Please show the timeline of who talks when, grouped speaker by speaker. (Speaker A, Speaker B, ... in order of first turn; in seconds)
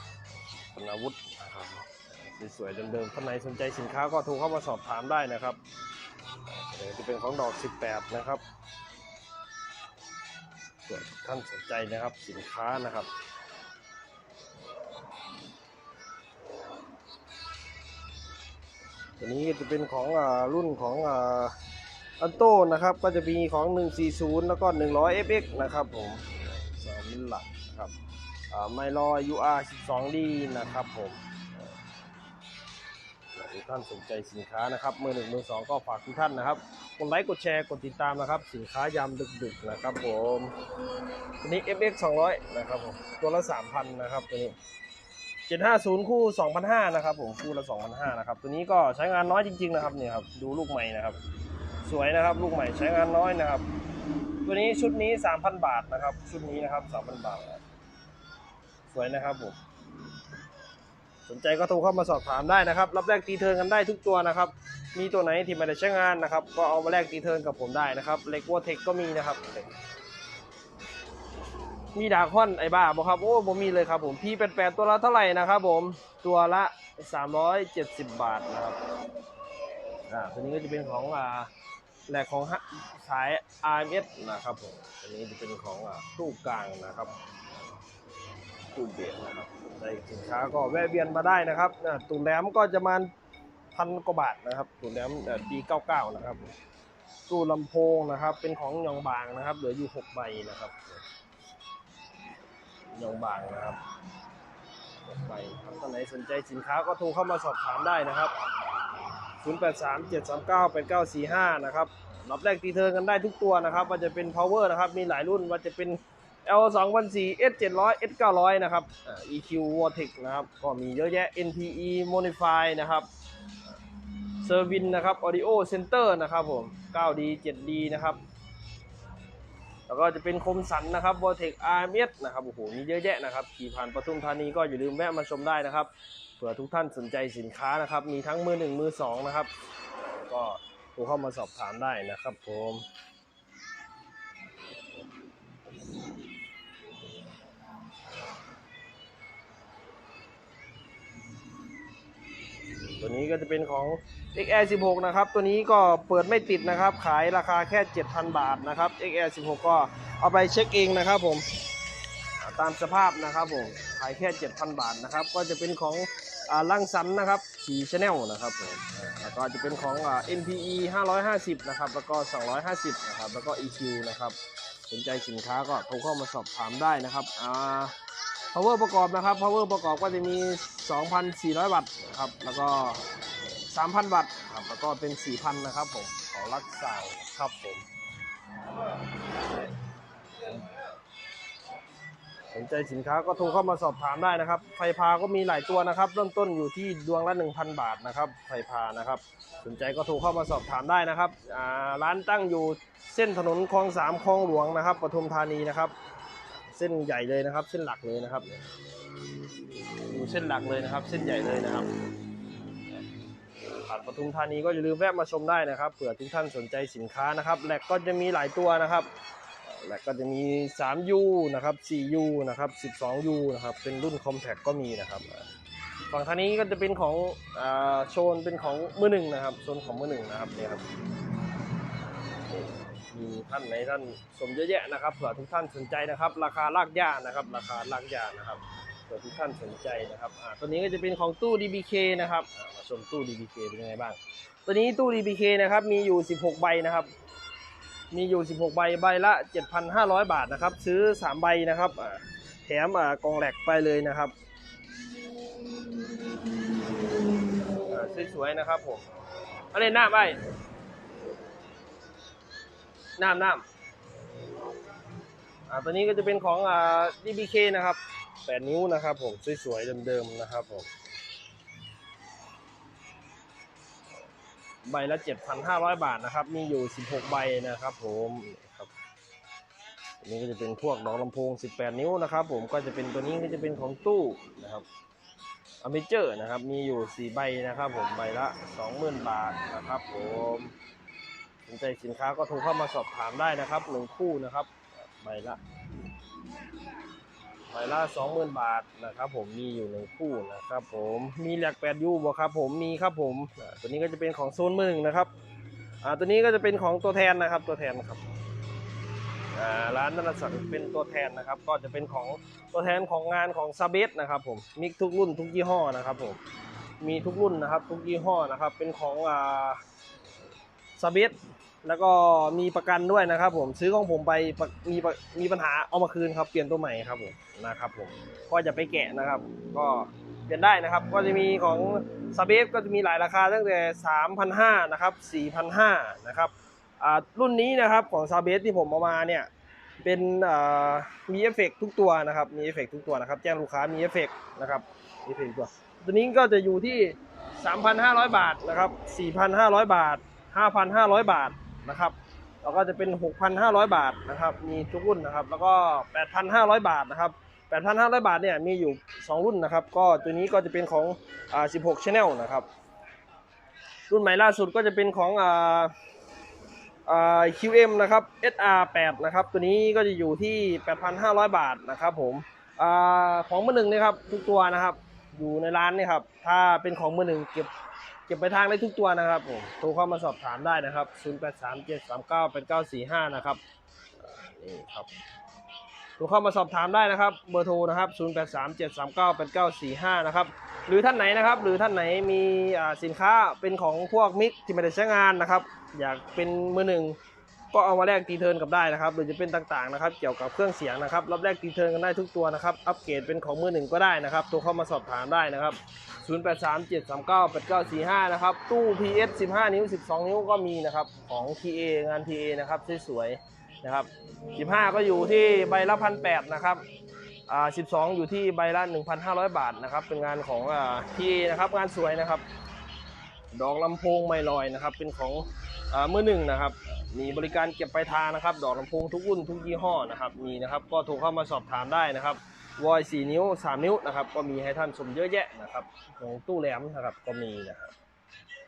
Speaker A: 0.7-5.6, 6.5-8.4, 10.9-13.1, 19.2-21.6, 22.2-27.9, 28.5-31.2, 33.3-40.5, 41.4-44.6, 45.5-51.2, 51.8-53.6, 54.4-57.6, 58.9-59.6, 61.3-69.7, 71.9-78.8, 80.1-81.5, 82.1-87.1, 88.7-93.1, 93.7-96.5, 97.3-101.0, 102.9-103.8, 105.0-108.3, 109.4-123.1, 124.4-128.2, 129.9-139.5, 140.2-142.9, 153.0-161.5, 162.4-178.0, 178.5-183.0, 183.7-187.9, 192.5-205.9, 206.6-208.7, 210.1-211.9, 213.9-219.1, 219.6-225.5, 226.1-230.8, 232.8-247.1, 248.1-254.3, 257.9-259.1, 259.7-260.4, 263.2-263.6, 265.7-270.9, 274.8-278.9, 280.2-284.9, 285.8-290.7, 291.7-295.6, 297.7-305.3, 306.0-308.2, 309.5-316.4, 317.0-319.8, 321.0-362.7, 364.1-365.9, 367.1-377.7, 378.3-383.6, 384.2-385.1, 386.2-397.2, 397.7-416.8, 417.5-422.5, 423.5-437.9